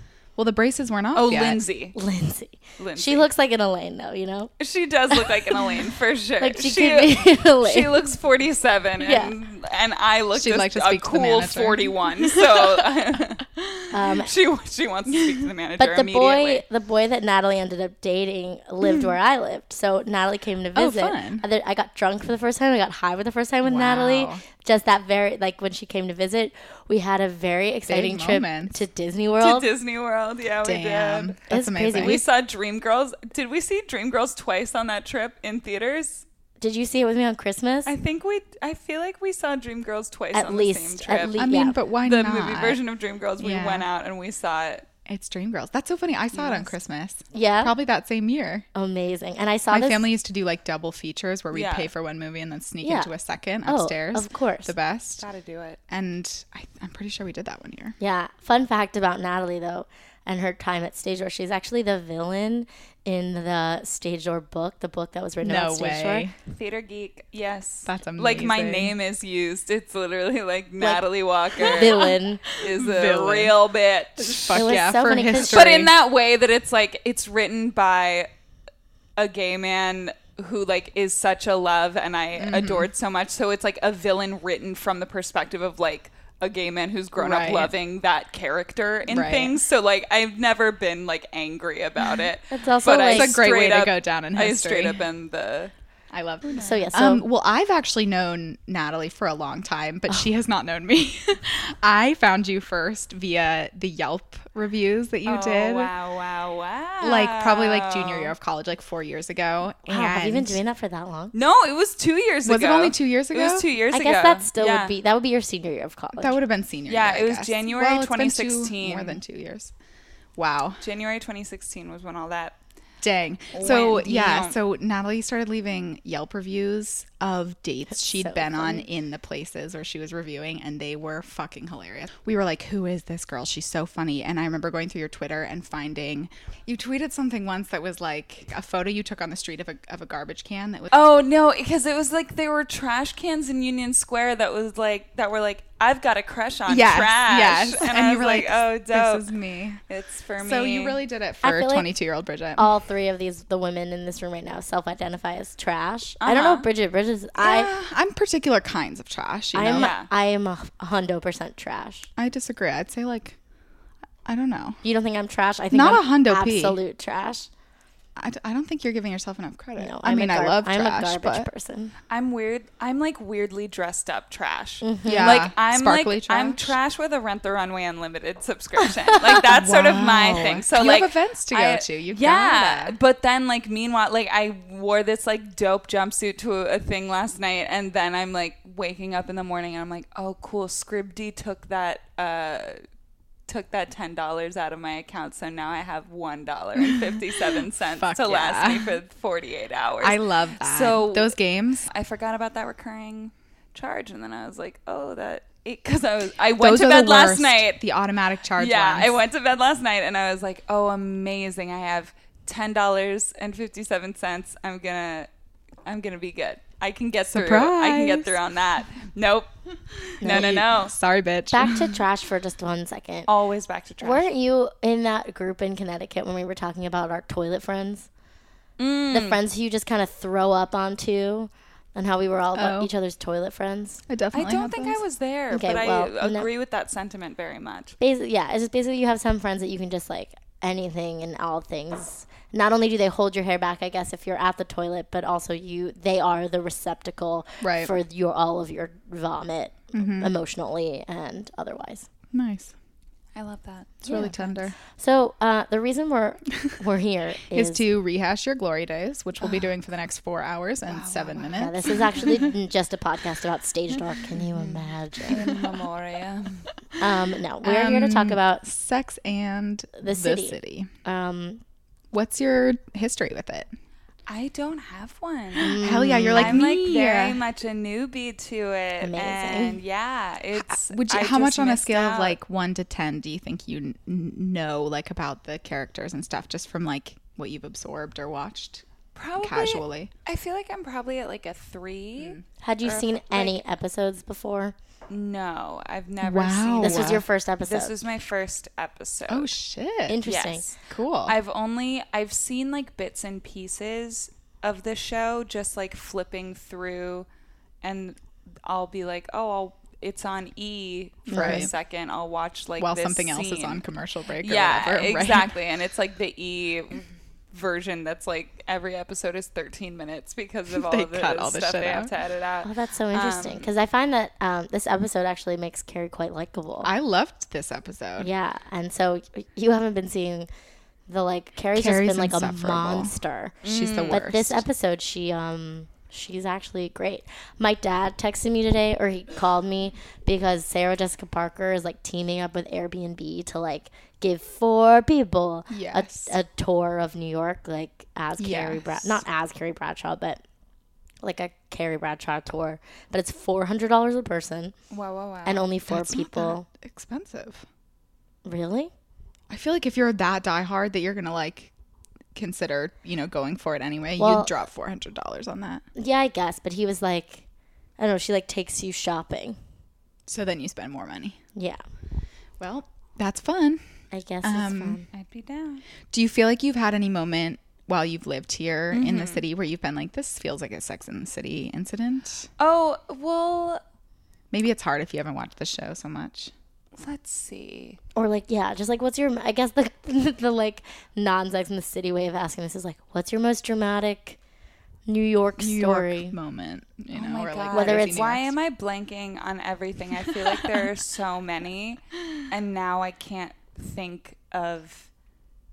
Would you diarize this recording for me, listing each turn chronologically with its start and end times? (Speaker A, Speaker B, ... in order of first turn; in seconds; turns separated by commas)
Speaker A: 0.3-1.6, Speaker B: 1.1-1.9, Speaker C: 1.9-4.5, Speaker B: 2.8-3.3, Speaker B: 4.6-13.4, Speaker C: 6.4-8.0, Speaker C: 9.0-9.3, Speaker A: 10.3-12.8, Speaker C: 13.9-14.3, Speaker B: 14.2-16.6, Speaker C: 15.8-29.7, Speaker A: 20.7-21.4, Speaker A: 23.6-24.4, Speaker A: 27.9-28.8, Speaker B: 29.4-31.4, Speaker A: 30.6-32.2, Speaker C: 31.5-32.2, Speaker B: 32.0-36.2, Speaker C: 36.6-37.9, Speaker B: 37.9-41.5, Speaker C: 40.3-41.8, Speaker A: 41.4-42.8, Speaker B: 42.0-44.9, Speaker A: 43.4-43.9, Speaker A: 45.1-48.6, Speaker B: 46.3-46.7, Speaker C: 47.3-47.7, Speaker C: 48.8-50.1, Speaker A: 49.7-55.2, Speaker B: 51.5-51.9, Speaker C: 52.8-53.1, Speaker C: 53.6-54.7, Speaker B: 55.2-55.8, Speaker A: 55.9-58.0, Speaker C: 58.0-66.3, Speaker A: 65.4-66.3, Speaker B: 66.5-72.0, Speaker A: 67.8-69.0, Speaker C: 71.6-72.4, Speaker A: 71.6-73.6, Speaker B: 72.6-74.8, Speaker A: 74.2-76.0, Speaker C: 74.5-75.6, Speaker B: 75.3-78.3, Speaker B: 79.2-95.7, Speaker A: 82.4-82.9, Speaker A: 87.2-87.7, Speaker A: 89.1-89.6, Speaker C: 92.5-93.4, Speaker A: 93.1-95.0, Speaker A: 96.1-105.9, Speaker B: 96.5-96.8, Speaker C: 96.5-97.2, Speaker B: 105.2-108.3, Speaker A: 107.0-110.6, Speaker C: 109.9-111.3, Speaker B: 111.3-114.9, Speaker A: 112.5-113.7, Speaker C: 113.9-116.4, Speaker A: 116.1-119.7, Speaker B: 116.9-119.2, Speaker A: 120.3-120.8, Speaker B: 120.8-122.6, Speaker A: 123.0-141.0, Speaker B: 123.5-124.6, Speaker C: 127.9-128.8, Speaker B: 140.9-149.3, Speaker A: 146.7-149.8, Speaker B: 149.9-151.0, Speaker A: 150.4-152.7, Speaker C: 151.4-151.9, Speaker C: 152.6-157.7, Speaker B: 156.2-156.7, Speaker A: 157.4-159.9, Speaker C: 159.5-162.1, Speaker B: 159.8-160.1, Speaker A: 162.2-163.4, Speaker A: 164.2-164.8, Speaker C: 164.8-167.5, Speaker A: 165.7-166.8, Speaker A: 168.2-171.5, Speaker C: 169.8-171.9, Speaker B: 172.1-192.8, Speaker C: 174.8-175.4, Speaker A: 175.1-176.8, Speaker A: 179.4-183.0, Speaker B: 193.5-201.3, Speaker A: 196.8-197.1, Speaker A: 198.0-198.9, Speaker A: 200.0-201.9, Speaker B: 201.9-207.8, Speaker A: 206.6-209.2, Speaker B: 208.6-215.3, Speaker B: 215.8-219.5, Speaker A: 217.3-218.4, Speaker B: 220.2-220.9, Speaker C: 220.2-220.6, Speaker A: 220.2-222.0, Speaker C: 221.5-223.3, Speaker B: 223.3-224.3, Speaker C: 224.0-228.1, Speaker B: 228.8-229.4, Speaker C: 229.1-234.0, Speaker A: 232.6-232.9, Speaker A: 234.1-235.0, Speaker B: 234.3-237.9, Speaker C: 235.5-236.5, Speaker C: 238.0-252.1, Speaker A: 247.6-247.9, Speaker A: 249.9-250.3, Speaker A: 252.3-252.7, Speaker B: 253.3-254.7, Speaker A: 254.1-254.7, Speaker C: 254.1-257.9, Speaker A: 257.5-262.5, Speaker B: 260.9-261.5, Speaker C: 261.4-265.4, Speaker A: 264.4-265.7, Speaker B: 265.3-266.7, Speaker C: 267.0-268.6, Speaker A: 267.6-270.9, Speaker C: 270.0-271.6, Speaker A: 272.1-273.7, Speaker B: 274.3-282.4, Speaker C: 275.6-276.6, Speaker A: 275.6-277.4, Speaker C: 279.0-279.8, Speaker A: 280.5-288.9, Speaker B: 289.2-293.5, Speaker A: 289.4-290.1, Speaker A: 292.2-292.4, Speaker C: 292.6-294.7, Speaker B: 295.1-299.5, Speaker A: 296.2-297.2, Speaker C: 296.8-298.0, Speaker A: 299.3-300.2, Speaker C: 300.1-300.7, Speaker B: 300.2-300.7, Speaker A: 300.9-301.4, Speaker B: 301.2-307.3, Speaker B: 307.8-313.8, Speaker C: 311.3-311.7, Speaker A: 311.3-311.7, Speaker A: 312.8-315.5, Speaker B: 314.4-323.7, Speaker A: 320.7-322.1, Speaker C: 322.6-326.9, Speaker A: 326.8-328.3, Speaker C: 328.2-330.5, Speaker C: 331.1-350.4, Speaker A: 331.7-334.6, Speaker B: 333.6-334.2, Speaker A: 345.7-346.4, Speaker A: 348.4-349.2, Speaker C: 351.2-354.7, Speaker B: 354.9-355.6, Speaker C: 355.4-356.7, Speaker A: 355.9-357.7, Speaker C: 358.4-358.9, Speaker A: 359.5-361.7, Speaker A: 362.3-365.8, Speaker C: 364.2-364.5, Speaker C: 365.9-367.4, Speaker C: 368.0-369.6, Speaker A: 370.3-371.4, Speaker A: 372.6-373.8, Speaker C: 374.1-375.1, Speaker A: 374.4-375.0, Speaker B: 375.1-375.8, Speaker A: 376.1-382.5, Speaker B: 378.9-379.4, Speaker B: 382.6-383.8, Speaker A: 384.5-386.5, Speaker B: 386.9-388.0, Speaker C: 388.2-394.4, Speaker C: 395.1-396.4, Speaker A: 395.6-398.5, Speaker B: 397.1-405.1, Speaker C: 397.7-398.3